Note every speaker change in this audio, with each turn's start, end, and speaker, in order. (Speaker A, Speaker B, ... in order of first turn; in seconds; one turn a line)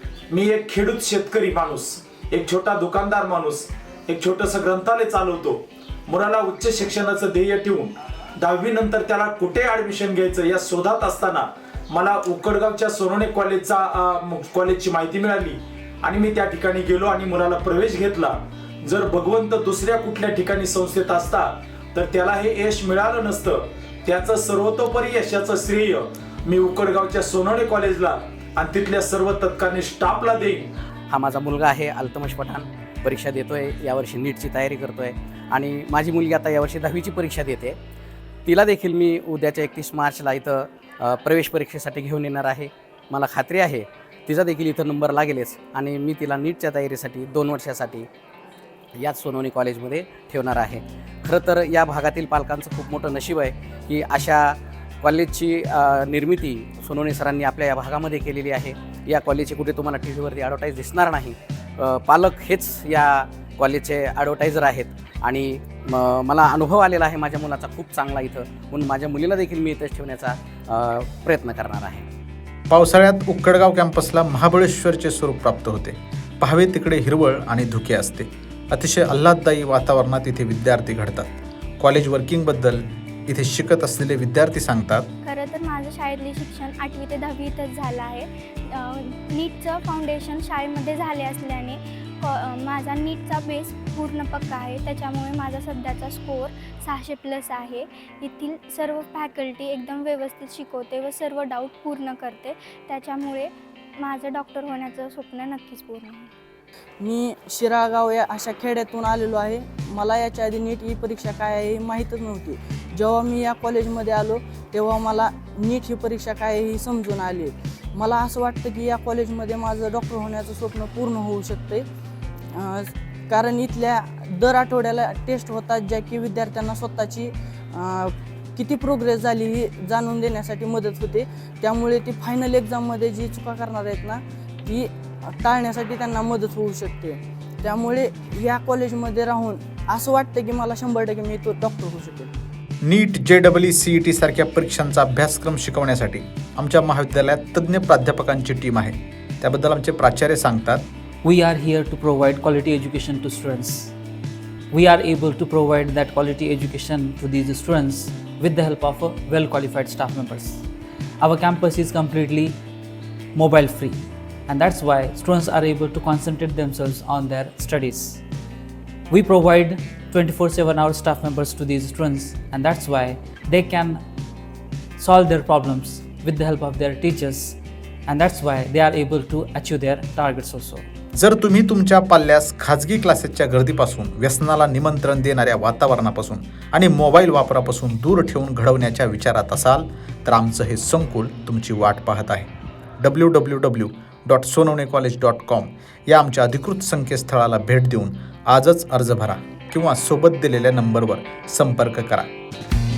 Speaker A: 0.3-30.7
Speaker B: 31.1-37.8
Speaker B: 38.5-48.1
Speaker B: 49.0-72.0
Speaker C: 72.7-85.1
Speaker D: 85.2-106.3
Speaker E: 107.0-121.8
Speaker E: 122.5-142.3
Speaker C: 142.8-150.8
Speaker F: 151.2-153.9
Speaker F: 154.7-160.6
Speaker F: 161.2-162.6
Speaker F: 163.3-168.2
Speaker F: 169.1-174.0
Speaker F: 175.0-180.8
Speaker C: 181.2-202.3